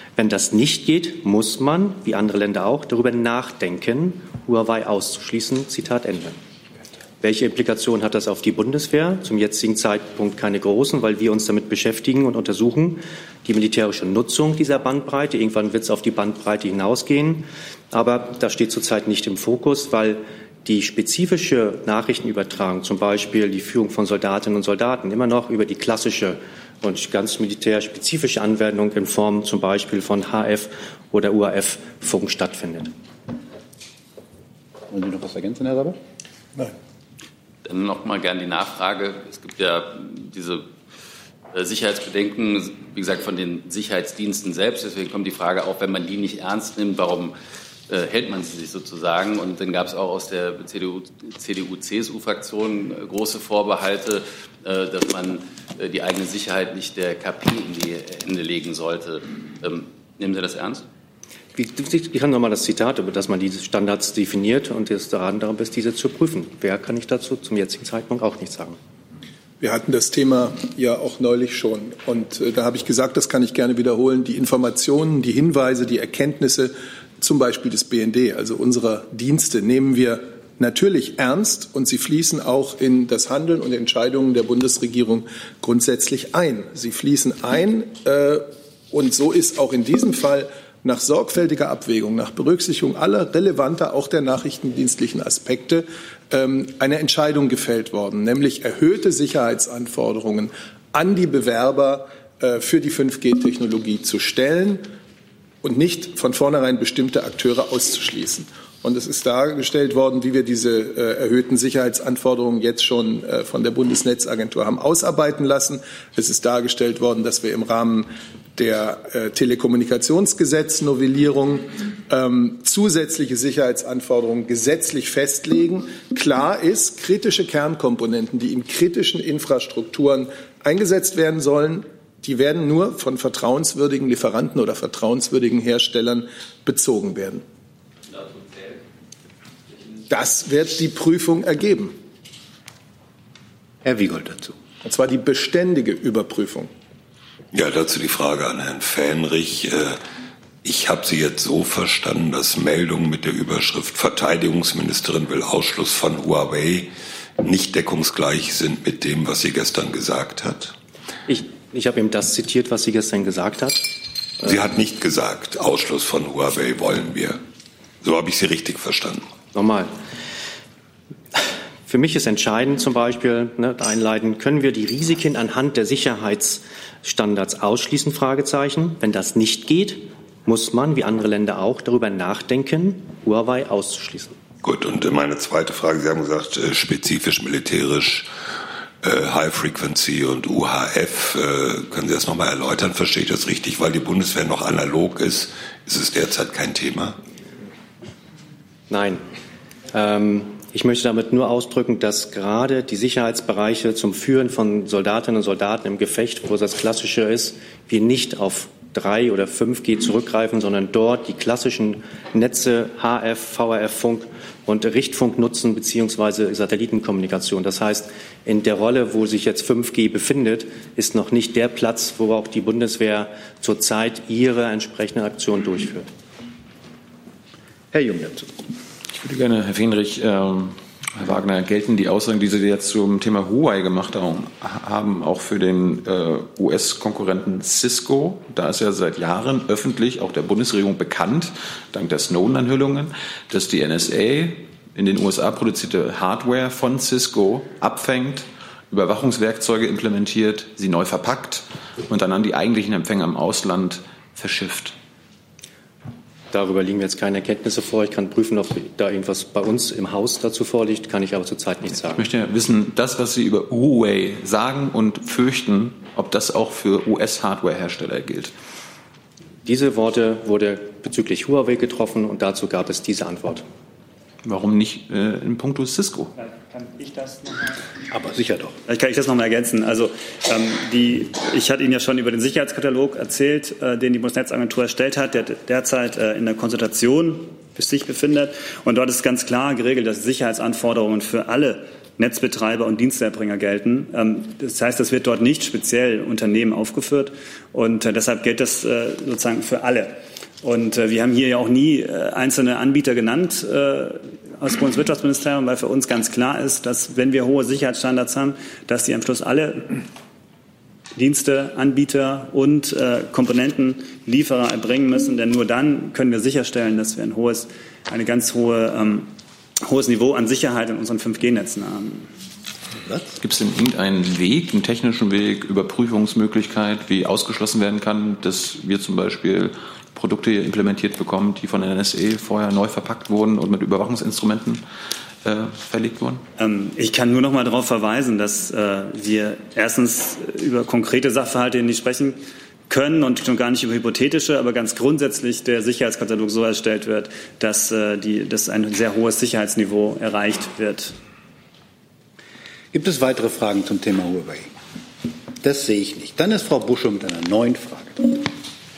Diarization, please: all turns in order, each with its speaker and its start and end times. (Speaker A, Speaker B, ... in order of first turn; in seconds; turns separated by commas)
Speaker A: 0.2-6.4, Speaker A: 7.2-32.9, Speaker B: 34.9-36.0, Speaker C: 37.6-40.7, Speaker C: 41.5-47.3, Speaker C: 47.9-60.8, Speaker A: 61.5-68.8, Speaker D: 69.6-104.8, Speaker D: 105.6-137.4, Speaker C: 138.1-138.7, Speaker D: 140.1-141.9, Speaker B: 143.8-144.6, Speaker D: 144.8-146.7, Speaker E: 147.5-150.0, Speaker E: 150.6-156.9, Speaker E: 157.4-160.7, Speaker A: 161.3-163.9, Speaker E: 164.4-167.4, Speaker E: 168.0-169.3, Speaker A: 169.5-169.9, Speaker A: 171.3-184.4, Speaker E: 184.6-188.3, Speaker E: 189.0-197.2, Speaker A: 198.9-199.2, Speaker A: 199.9-226.1, Speaker B: 227.9-228.6, Speaker F: 229.2-254.9, Speaker A: 256.5-262.3, Speaker F: 261.8-268.5, Speaker A: 269.6-273.6, Speaker F: 274.4-276.3, Speaker B: 278.1-278.8, Speaker G: 278.9-310.0, Speaker G: 311.1-322.3, Speaker B: 322.9-323.3, Speaker F: 323.4-334.8, Speaker F: 335.4-336.4, Speaker G: 336.6-351.1, Speaker B: 352.9-354.7, Speaker B: 355.6-358.5